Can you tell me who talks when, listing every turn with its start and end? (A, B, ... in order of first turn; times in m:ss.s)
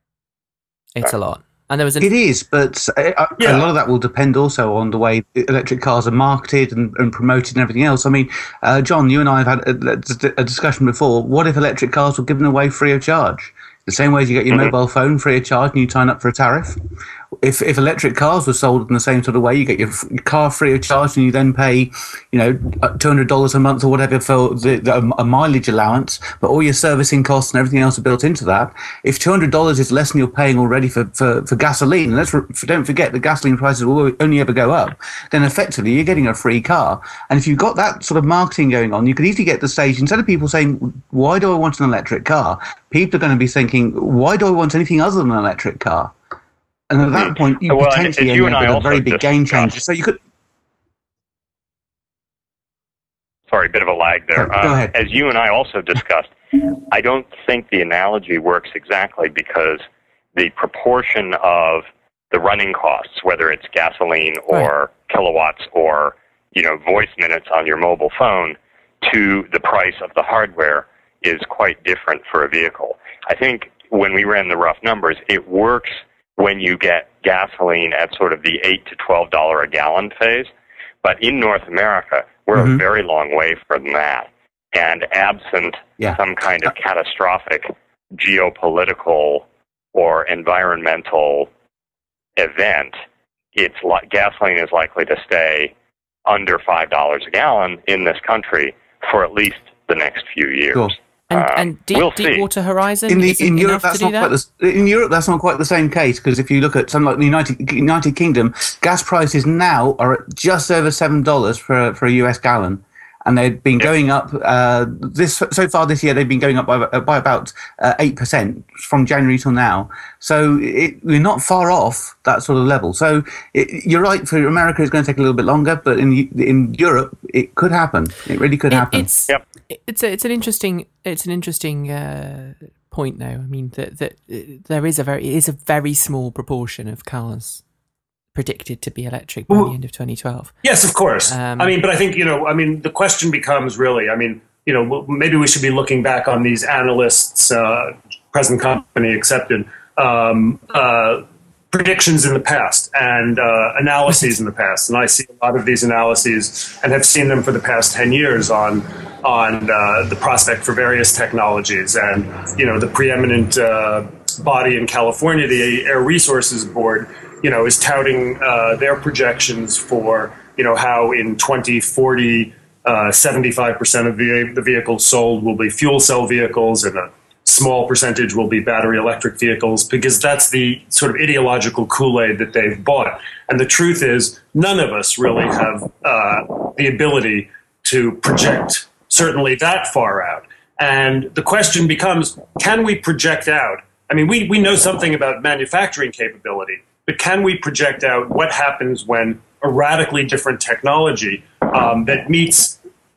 0:01.0-0:02.1 A
0:02.0-0:16.8 B
0:03.4-0:03.7 C
0:17.4-0:46.1 B
0:46.9-0:50.2 B
0:47.1-0:49.8 D
0:53.5-0:59.8 D
0:54.4-0:54.9 B
1:00.4-1:20.5 D
1:21.0-1:31.5 D
1:22.6-1:22.8 B
1:32.4-1:32.9 D
1:33.6-1:35.7 D
1:36.3-1:42.4 D
1:41.3-1:44.3 A
1:43.1-2:09.1 B
2:08.7-2:17.6 A
2:18.3-2:20.6 A
2:20.6-3:22.8 C
2:21.2-2:21.8 A